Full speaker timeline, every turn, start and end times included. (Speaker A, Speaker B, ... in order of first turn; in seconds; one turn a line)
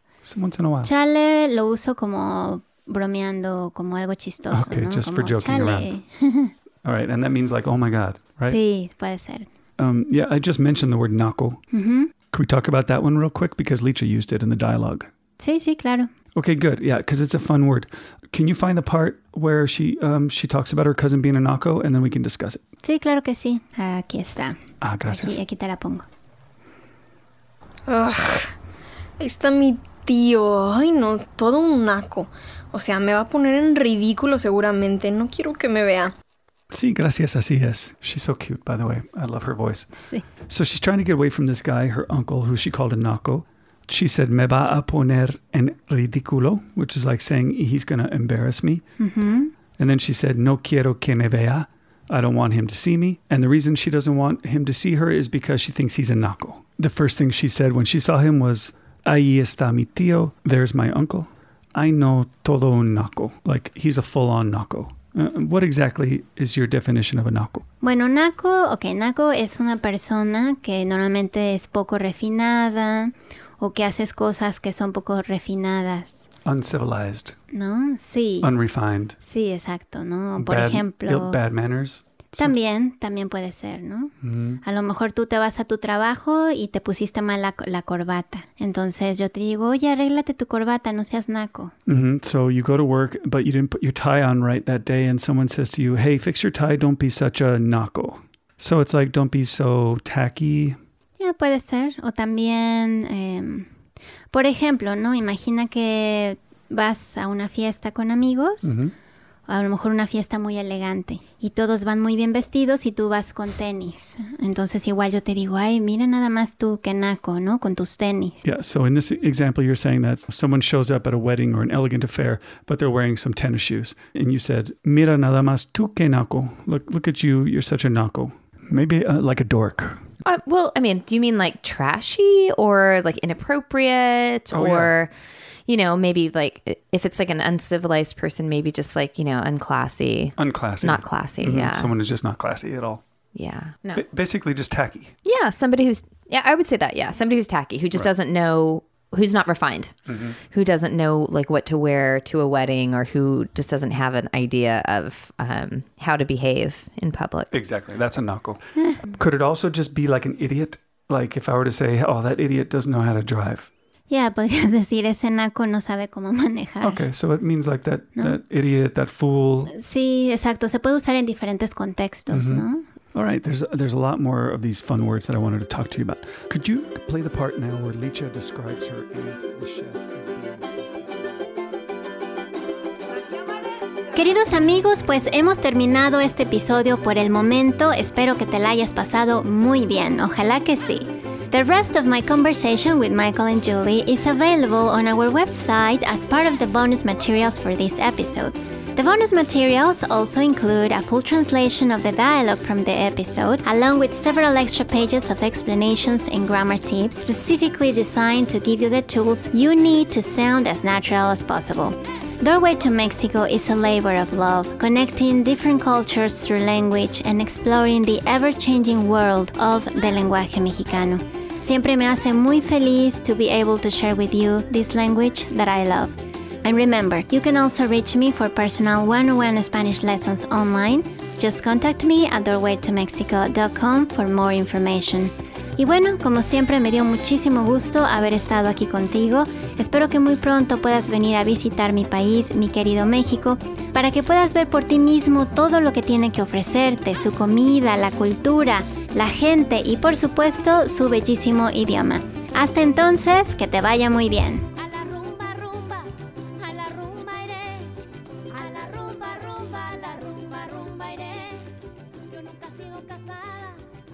Speaker A: 0.2-0.9
Speaker B: 0.8-6.5
Speaker A: 4.5-5.9
Speaker A: 6.8-8.6
Speaker B: 8.5-9.5
Speaker A: 9.8-11.7
Speaker B: 11.7-12.1
Speaker A: 12.3-15.1
Speaker B: 15.4-16.1
Speaker A: 16.3-22.6
Speaker B: 22.8-26.0
Speaker A: 24.8-25.4
Speaker C: 27.9-28.5
Speaker C: 29.2-36.1
Speaker A: 36.7-40.0
Speaker B: 40.0-40.2
Speaker A: 40.5-48.8
Speaker B: 49.0-49.5
Speaker A: 49.8-67.6
Speaker B: 67.8-76.3
Speaker A: 76.5-77.4
Speaker B: 77.5-78.5
Speaker A: 78.4-79.2
Speaker B: 79.2-81.4
Speaker A: 80.4-82.6
Speaker B: 82.4-91.7
Speaker A: 84.2-84.6
Speaker A: 91.9-100.8
Speaker B: 101.2-103.7
Speaker B: 104.3-108.8
Speaker A: 108.6-108.9
Speaker B: 109.5-118.4
Speaker A: 118.4-130.0
Speaker D: 130.2-135.1
Speaker A: 134.5-134.9
Speaker D: 135.7-141.9
Speaker A: 140.4-143.0
Speaker D: 143.3-144.0
Speaker A: 143.9-145.1
Speaker D: 145.2-157.5
Speaker A: 150.1-150.4
Speaker A: 157.5-163.7
Speaker B: 164.1-167.0
Speaker A: 166.8-169.7
Speaker B: 169.7-172.8
Speaker A: 172.3-181.4
Speaker B: 184.1-254.7
Speaker D: 254.8-256.0
Speaker D: 256.6-257.8
Speaker D: 258.6-261.5
Speaker D: 262.5-263.7